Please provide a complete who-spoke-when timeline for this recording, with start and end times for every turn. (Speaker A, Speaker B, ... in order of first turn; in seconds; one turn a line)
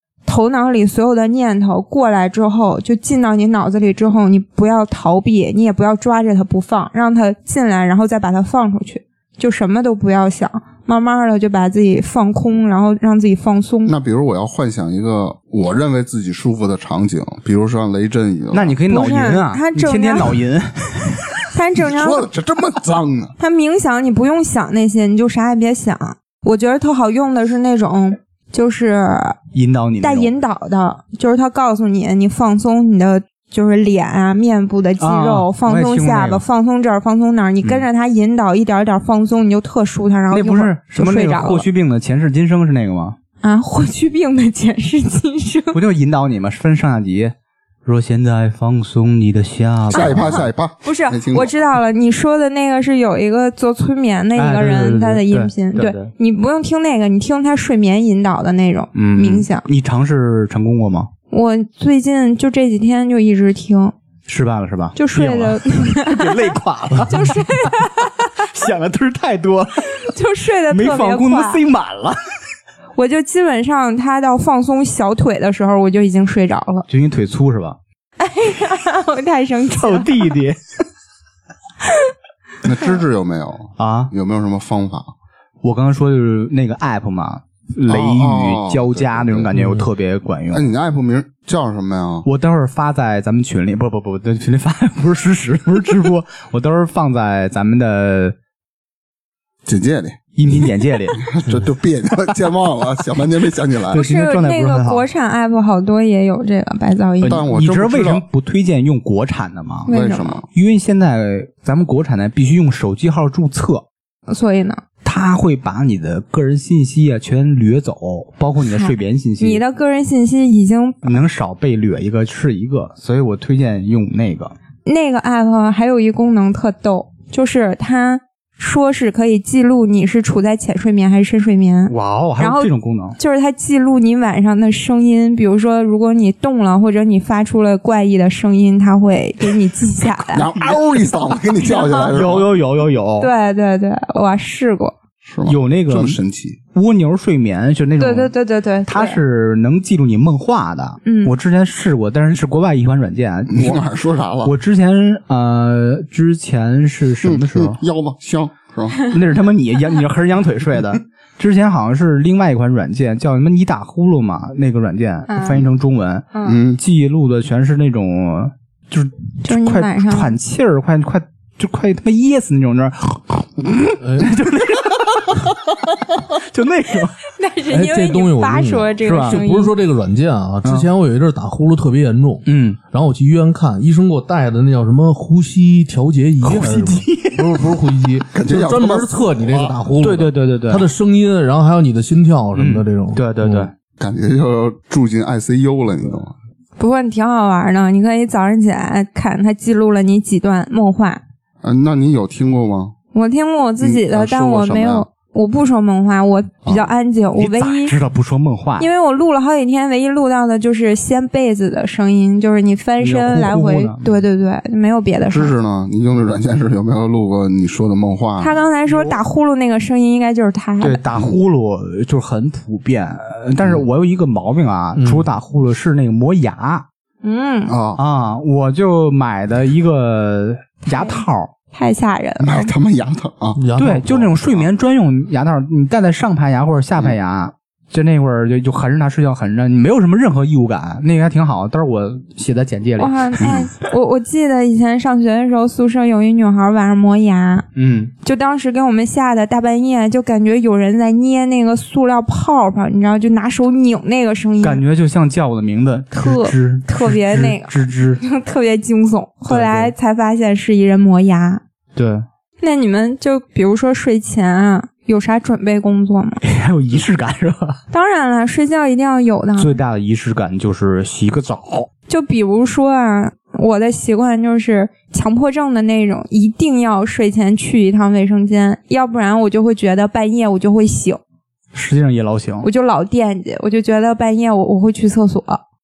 Speaker A: 0.3-13.9
Speaker B: 13.9-18.8
Speaker C: 18.5-21.4
Speaker A: 18.9-20.4
Speaker A: 21.5-22.3
Speaker B: 21.8-23.4
Speaker A: 23.4-29.4
Speaker C: 29.5-30.3
Speaker A: 30.0-41.7
Speaker C: 35.0-36.4
Speaker C: 40.3-43.2
Speaker A: 43.4-45.8
Speaker C: 45.7-47.3
Speaker C: 47.9-50.5
Speaker B: 49.9-51.5
Speaker A: 49.9-59.7
Speaker C: 54.4-56.1
Speaker C: 59.0-61.1
Speaker A: 61.3-63.9
Speaker C: 64.3-67.7
Speaker A: 65.0-66.5
Speaker A: 67.1-68.3
Speaker C: 68.4-70.1
Speaker A: 69.9-71.6
Speaker C: 70.7-72.2
Speaker A: 73.0-76.9
Speaker C: 76.9-77.8
Speaker A: 78.2-80.3
Speaker C: 79.7-80.6
Speaker B: 82.6-85.1
Speaker C: 83.8-84.1
Speaker C: 85.6-90.7
Speaker B: 87.9-89.5
Speaker D: 89.5-89.9
Speaker B: 90.5-92.3
Speaker C: 92.2-98.3
Speaker B: 99.7-100.2
Speaker C: 100.4-101.2
Speaker B: 101.2-104.0
Speaker C: 103.9-105.1
Speaker A: 103.9-107.5
Speaker C: 107.2-109.9
Speaker B: 107.2-108.2
Speaker A: 109.9-110.4
Speaker B: 109.9-110.5
Speaker C: 110.5-113.8
Speaker A: 114.3-114.8
Speaker C: 115.0-119.6
Speaker A: 118.6-121.2
Speaker C: 121.0-124.5
Speaker A: 124.9-140.5
Speaker C: 131.9-133.2
Speaker B: 140.3-142.5
Speaker A: 141.6-142.1
Speaker C: 142.1-143.3
Speaker A: 143.2-144.9
Speaker B: 145.2-146.6
Speaker C: 145.5-146.2
Speaker C: 146.7-148.3
Speaker A: 148.0-149.2
Speaker C: 148.9-153.8
Speaker A: 151.1-151.3
Speaker B: 153.5-154.5
Speaker C: 154.4-157.8
Speaker B: 157.2-159.1
Speaker C: 159.0-177.2
Speaker A: 165.3-165.7
Speaker A: 166.3-166.6
Speaker B: 166.4-166.8
Speaker A: 169.4-170.4
Speaker D: 174.0-174.3
Speaker A: 177.3-179.7
Speaker D: 177.7-193.7
Speaker C: 179.0-179.4
Speaker C: 182.5-182.8
Speaker C: 186.4-187.6
Speaker B: 188.3-189.8
Speaker C: 190.0-190.9
Speaker C: 192.6-193.7
Speaker B: 194.0-196.3
Speaker A: 196.8-201.2
Speaker B: 201.6-202.9
Speaker A: 203.1-208.0
Speaker B: 203.8-205.1
Speaker B: 206.7-206.9
Speaker C: 207.4-208.9
Speaker A: 208.8-215.6
Speaker C: 213.0-214.2
Speaker B: 215.3-218.6
Speaker A: 218.4-221.0
Speaker C: 220.8-226.8
Speaker D: 225.0-225.3
Speaker A: 227.2-227.7
Speaker B: 227.7-228.0
Speaker C: 228.0-231.5
Speaker A: 230.9-231.2
Speaker A: 231.7-232.7
Speaker B: 232.4-233.6
Speaker D: 233.6-234.3
Speaker C: 233.8-243.4
Speaker B: 234.4-234.7
Speaker A: 243.0-247.7
Speaker B: 243.4-243.7
Speaker C: 247.8-248.1
Speaker A: 248.2-254.8
Speaker C: 254.6-258.2
Speaker A: 256.1-261.6
Speaker C: 259.5-259.9
Speaker C: 261.9-262.2
Speaker A: 262.6-266.4
Speaker C: 266.4-267.8
Speaker A: 267.9-269.8
Speaker C: 269.6-271.9
Speaker A: 272.1-281.2
Speaker C: 281.7-282.7
Speaker A: 282.6-285.6